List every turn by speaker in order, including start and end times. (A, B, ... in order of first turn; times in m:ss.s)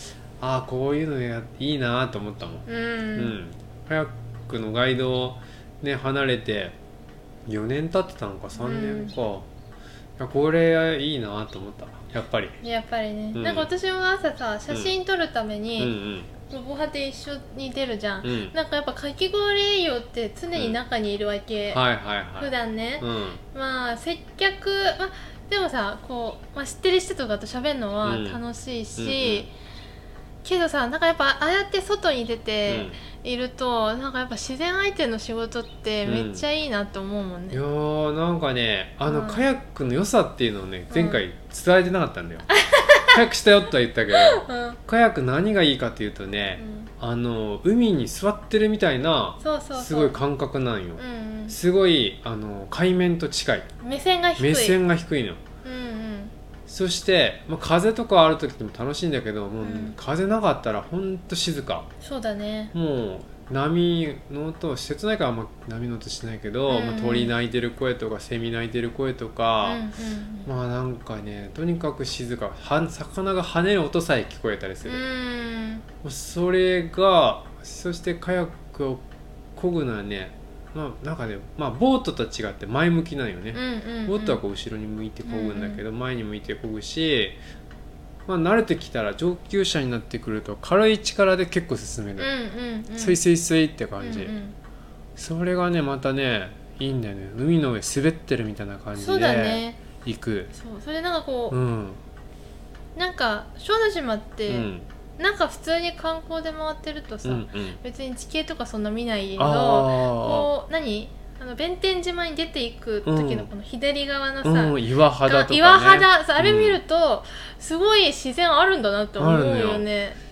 0:00.4-0:06.8 A
0:02.7-0:03.4 B
0:07.4-0:09.5 A
0:08.5-0:09.1 B
0:10.2-0:12.6 A
0:12.6-0:21.8 B
0:13.3-0:13.7 A
0:15.8-0:16.3 A
0:18.2-0:18.5 A
0:21.7-0:23.4 A
0:22.4-0:29.5 B
0:28.0-0:28.4 A
0:29.0-0:29.5 A
0:30.4-0:37.6 B
0:32.7-0:33.0 A
0:36.0-0:36.4 A
0:37.5-0:42.5 A
0:39.1-0:39.4 B
0:40.9-0:41.2 B
0:42.5-0:43.2 B
0:43.1-0:53.7 A
0:44.1-0:44.8 B
0:46.6-0:46.9 B
0:49.4-0:50.2 B
0:51.0-0:51.6 B
0:53.8-0:54.8 B
0:54.4-0:55.4 A
0:55.6-0:56.3 B
0:56.7-1:01.9 A
0:59.6-0:59.9 B
1:02.0-1:02.7 B
1:02.7-1:09.8 A
1:06.7-1:07.3 B
1:09.6-1:10.5 B
1:10.4-1:15.0 A
1:14.8-1:15.8 B
1:16.0-1:19.0 A
1:19.5-1:27.4 A
1:23.5-1:24.4 B
1:25.2-1:25.8 B
1:28.2-1:32.3 A
1:32.2-1:33.2 B
1:33.0-1:34.3 A
1:34.0-1:34.5 B
1:35.2-1:40.5 A
1:39.0-1:39.8 B
1:40.5-1:41.6 B
1:41.5-1:42.0 A
1:43.0-2:00.2 B
1:44.5-1:44.9 A
1:47.2-1:47.8 A
1:49.4-1:50.5 A
1:53.0-1:53.5 A
1:54.4-1:56.8 A
1:59.2-1:59.8 A